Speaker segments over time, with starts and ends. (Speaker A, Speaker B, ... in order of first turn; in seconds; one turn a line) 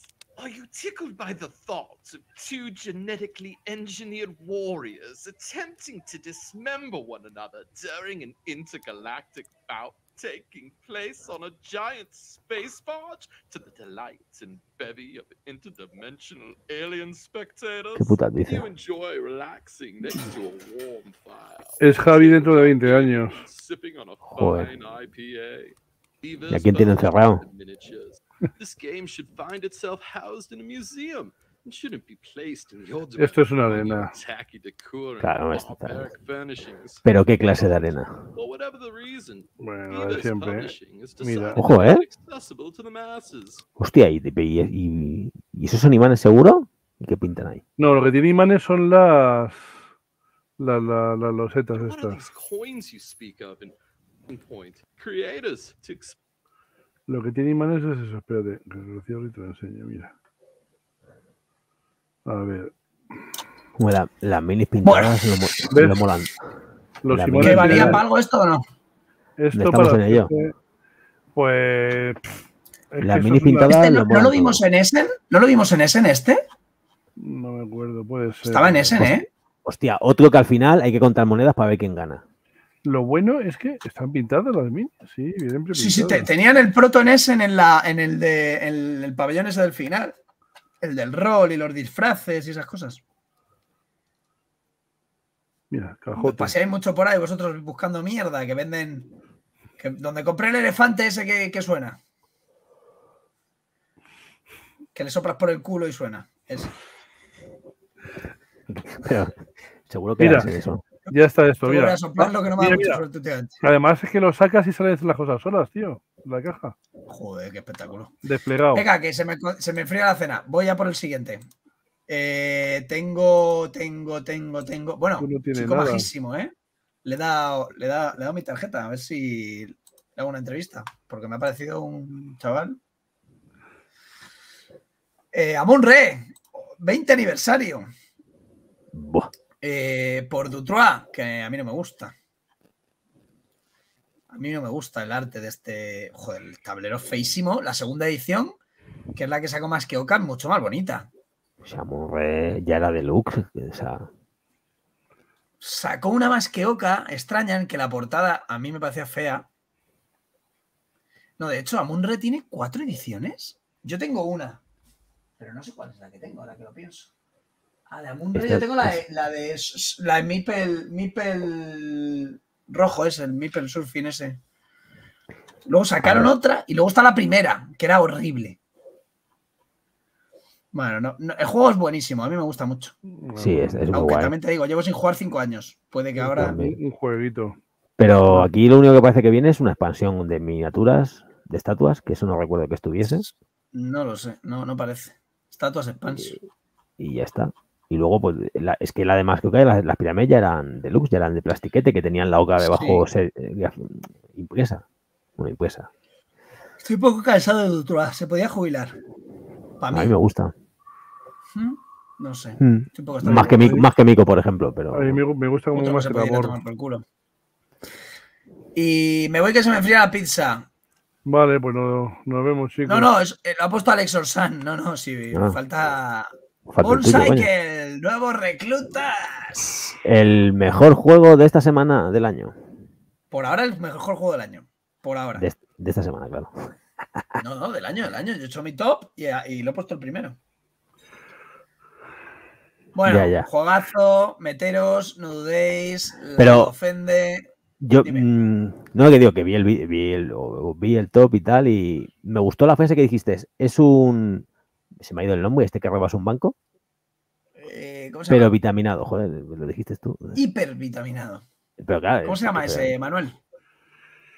Speaker A: 0.3-43.6
Speaker B: 17.9-18.7
Speaker C: 21.8-23.4
Speaker B: 24.2-24.7
Speaker B: 26.5-27.4
Speaker C: 33.1-34.1
Speaker B: 35.2-36.1
Speaker B: 37.0-38.2
Speaker C: 39.6-41.6
Speaker B: 41.5-42.0
Speaker B: 43.8-47.6
Speaker C: 47.8-49.8
Speaker C: 50.6-52.2
Speaker A: 51.7-53.8
Speaker A: 54.3-56.2
Speaker C: 57.1-60.1
Speaker C: 62.2-62.7
Speaker B: 63.8-66.4
Speaker D: 64.8-65.7
Speaker C: 65.7-66.0
Speaker C: 67.0-68.0
Speaker B: 67.1-68.0
Speaker D: 67.4-68.6
Speaker C: 69.4-70.5
Speaker B: 69.5-70.3
Speaker C: 71.3-72.4
Speaker C: 72.9-73.7
Speaker B: 73.0-74.6
Speaker D: 73.7-76.4
Speaker C: 77.2-79.1
Speaker D: 78.5-79.2
Speaker B: 79.6-82.2
Speaker C: 82.8-86.3
Speaker D: 85.7-90.2
Speaker D: 90.8-93.0
Speaker C: 95.7-96.5
Speaker D: 96.2-99.1
Speaker D: 99.8-102.0
Speaker D: 104.9-106.7
Speaker B: 108.7-110.8
Speaker C: 110.2-110.5
Speaker D: 111.0-113.6
Speaker C: 111.1-113.0
Speaker C: 113.6-116.7
Speaker D: 117.1-118.1
Speaker C: 118.2-118.8
Speaker D: 118.7-121.4
Speaker D: 122.1-126.5
Speaker C: 125.2-126.1
Speaker D: 127.0-132.8
Speaker D: 135.3-137.9
Speaker B: 138.9-139.3
Speaker D: 139.6-142.1
Speaker D: 144.3-148.5
Speaker D: 149.1-151.1
Speaker B: 151.6-154.1
Speaker D: 155.6-159.4
Speaker D: 161.4-164.6
Speaker D: 165.4-167.1
Speaker D: 167.9-174.4
Speaker B: 168.3-169.0
Speaker D: 175.7-178.6
Speaker B: 176.0-176.3
Speaker D: 180.7-182.9
Speaker C: 183.2-183.8
Speaker B: 183.4-184.3
Speaker D: 183.9-186.5
Speaker C: 186.2-187.6
Speaker B: 186.4-186.8
Speaker B: 188.0-193.3
Speaker D: 193.1-196.3
Speaker B: 197.0-204.8
Speaker D: 202.6-203.1
Speaker B: 205.4-205.9
Speaker D: 206.8-208.9
Speaker D: 209.8-210.1
Speaker B: 209.9-210.5
Speaker D: 211.5-213.8
Speaker B: 212.6-215.2
Speaker C: 213.2-213.8
Speaker C: 214.9-216.6
Speaker D: 215.7-217.0
Speaker D: 218.8-220.7
Speaker C: 221.2-223.1
Speaker D: 222.8-229.9
Speaker B: 225.3-225.6
Speaker B: 226.7-227.5
Speaker B: 230.0-232.6
Speaker D: 233.3-235.4
Speaker B: 235.3-237.4
Speaker D: 237.4-240.3
Speaker D: 242.9-247.5
Speaker B: 243.1-243.5
Speaker B: 246.4-246.7
Speaker B: 247.8-254.4
Speaker B: 255.0-256.5
Speaker D: 257.6-258.5
Speaker B: 258.3-260.4
Speaker D: 260.3-261.4
Speaker B: 261.8-262.9
Speaker D: 262.2-263.4